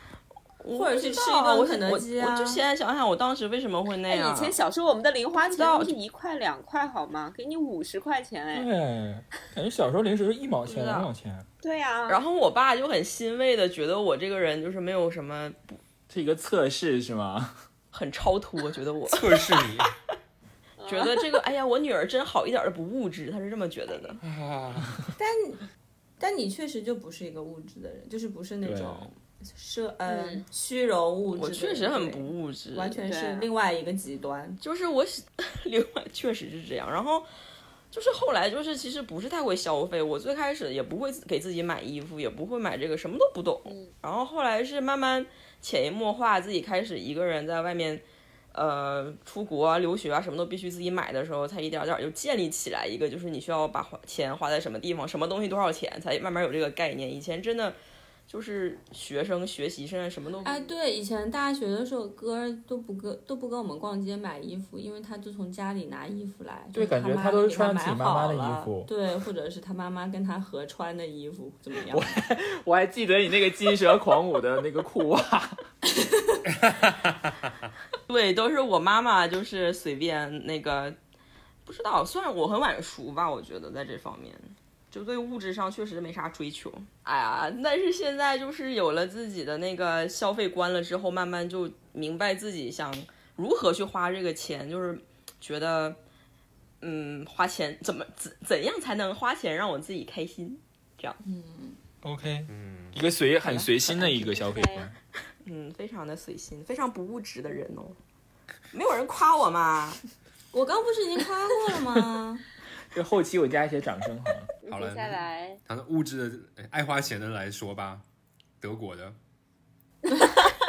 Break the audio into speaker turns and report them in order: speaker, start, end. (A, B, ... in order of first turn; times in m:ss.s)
0:00.6-0:04.6 A
0:00.7-0:02.6 B
0:04.1-0:08.7 C
0:05.4-0:06.0 A
0:08.5-0:11.5 D
0:10.6-0:11.1 A
0:11.6-0:12.2 C
0:12.1-0:15.8 A
0:16.1-0:17.6 D
0:17.9-0:19.8 A
0:19.1-0:19.9 E
0:20.8-0:21.4 C
0:20.8-0:24.2 A
0:24.2-0:25.0 E
0:25.2-0:25.6 B
0:26.2-0:34.6 B
0:28.6-0:29.1 D
0:30.1-0:30.4 C
0:31.3-0:33.0 A
0:33.0-0:33.5 C
0:34.6-0:37.3 A
0:37.9-0:57.8 A
0:43.6-0:43.9 C
0:58.3-1:00.5 A
1:00.4-1:12.1 B
1:06.7-1:08.9 D
1:11.9-1:15.6 D
1:16.0-1:16.4 B
1:16.5-1:17.5 E
1:18.1-1:21.0 A
1:21.6-1:36.0 A
1:36.8-1:41.2 A
1:41.2-1:41.8 B
1:42.0-1:45.0 D
1:42.5-1:43.0 E
1:43.4-1:44.2 A
1:44.2-1:44.9 C
1:45.4-1:48.0 A
1:48.7-1:50.0 A
1:50.5-1:52.4 B
1:52.9-1:54.5 D
1:54.6-1:55.6 C
1:54.7-1:58.0 E
1:58.6-1:59.2 E
2:00.2-2:00.4 B